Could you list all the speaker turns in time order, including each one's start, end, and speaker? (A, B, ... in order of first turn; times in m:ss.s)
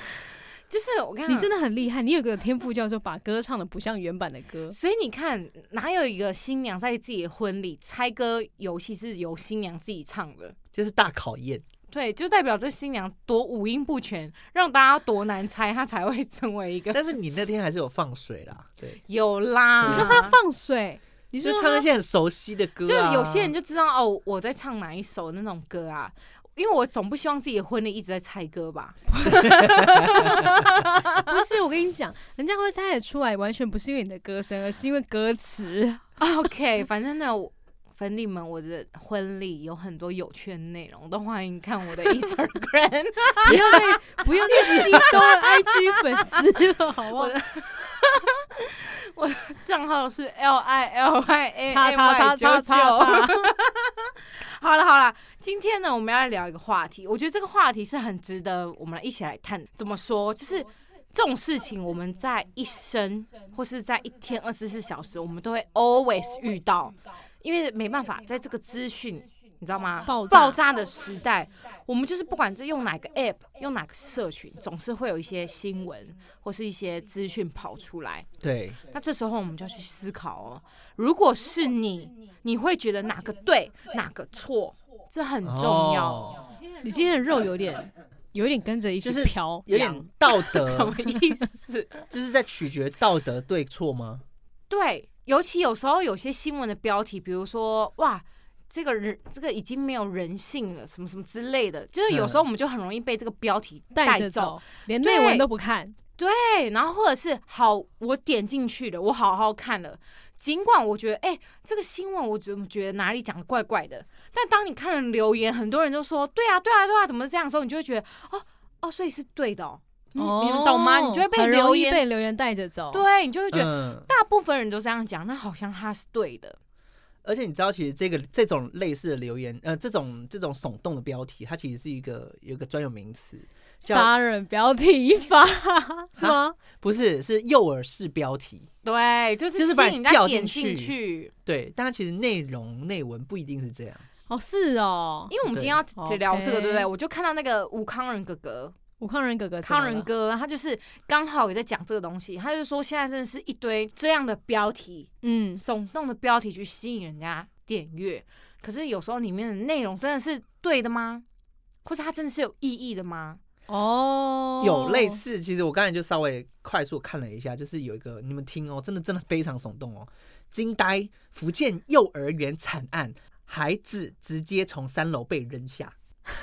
0:00.7-0:01.5 A
0:01.3-0:04.8 B
0:04.7-0:10.6 A
0:10.7-0:11.6 C
0:11.9-0:17.0 A
0:16.9-0:19.0 C
0:19.1-0:20.4 A
0:19.8-0:20.2 C
0:19.8-0:21.9 B
0:21.4-0:23.5 C
0:22.8-0:31.3 A
0:29.5-0:30.5 C
0:31.2-0:36.0 B
0:36.2-1:18.3 A
0:43.4-0:47.4 B
0:51.7-0:53.5 B
1:10.0-1:10.6 B
1:18.4-1:18.8 C
1:18.9-1:26.5 A
1:25.4-1:26.5 C
1:26.8-1:30.1 B
1:29.0-1:31.0 C
1:30.3-1:32.0 A
1:32.1-1:34.2 C
1:34.7-1:45.5 A
1:42.1-1:42.4 C
1:43.9-1:46.0 B
1:46.2-2:02.0 A
2:00.2-2:03.0 B
2:02.9-2:06.6 A
2:03.5-2:04.1 C
2:07.2-2:14.1 C
2:13.8-2:16.6 B
2:16.2-2:18.7 C
2:18.8-2:21.3 A
2:19.6-2:24.0 C
2:24.3-2:25.3 B
2:25.3-2:28.8 A
2:25.4-2:25.8 C
2:26.0-2:26.9 B
2:29.0-2:30.1 B
2:29.6-2:41.2 A
2:35.2-2:35.6 B
2:41.8-2:43.4 A
2:43.7-2:45.2 B
2:44.6-2:56.0 C